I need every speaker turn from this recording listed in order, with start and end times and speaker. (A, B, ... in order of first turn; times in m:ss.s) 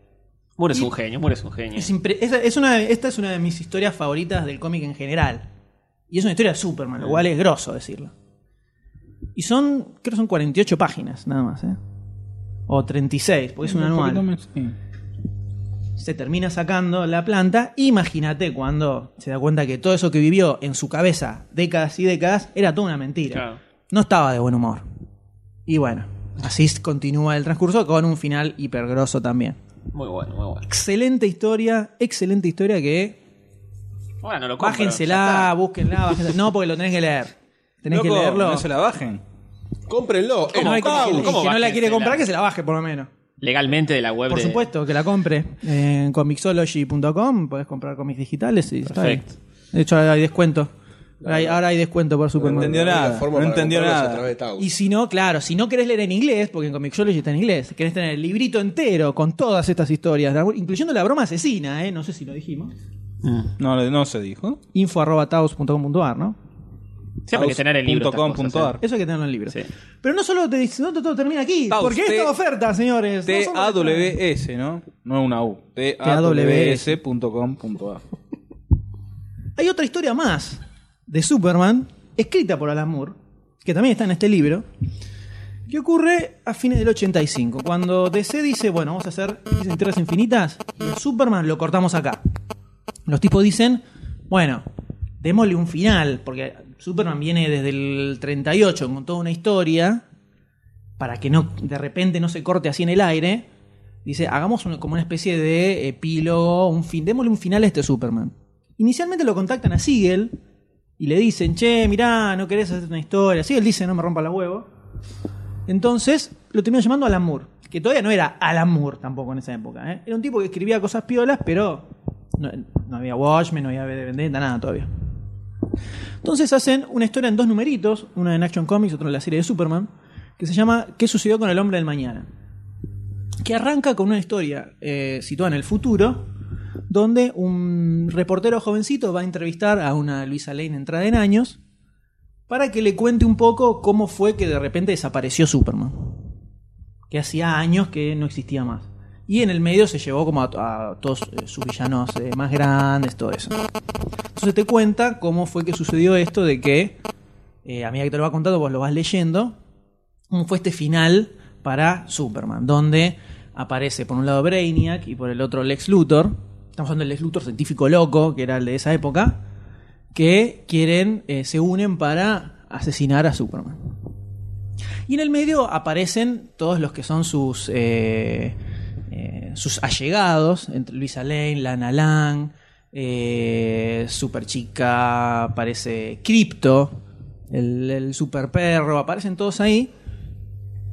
0:00.6-0:01.9 A
0:01.7-0:05.4 B
0:06.1-0:08.1 B
0:09.4-0:11.8 B
0:12.7-0:14.2 B
0:13.6-0:14.7 C
0:16.0-0:24.8 B
0:23.3-0:23.6 A
0:25.7-0:29.6 B
0:29.9-0:30.6 A
0:30.6-0:33.2 B
0:34.2-0:35.5 A
0:34.6-0:38.7 B
0:37.9-0:39.2 C
0:39.9-0:41.3 D
0:40.5-0:43.1 B
0:40.6-0:42.2 A
0:43.4-0:44.7 A
0:44.3-0:50.7 B
0:48.9-0:49.2 A
0:51.2-0:53.2 B
0:51.2-0:51.6 D
0:52.4-0:54.7 D
0:52.4-0:54.2 C
0:54.6-1:02.7 B
1:03.2-1:03.5 A
1:03.6-1:04.6 C
1:04.7-1:06.4 B
1:07.3-1:08.8 A
1:07.3-1:08.8 C
1:08.8-1:14.2 B
1:11.7-1:12.3 C
1:13.2-1:18.0 C
1:16.0-1:17.0 B
1:19.6-1:24.6 B
1:25.7-1:32.2 B
1:33.1-1:34.6 B
1:35.2-1:40.0 B
1:41.0-1:43.4 B
1:44.0-1:50.3 B
1:51.0-1:54.7 B
1:55.7-2:04.9 B
2:06.2-2:12.3 B
2:13.4-2:16.3 B
2:16.9-2:21.6 B
2:22.5-2:26.3 B
2:27.1-2:33.6 B
2:34.3-2:37.0 B
2:37.6-2:39.6 B
2:40.3-2:49.4 B
2:50.1-2:53.8 B
2:55.1-2:58.6 B
2:59.1-3:09.9 B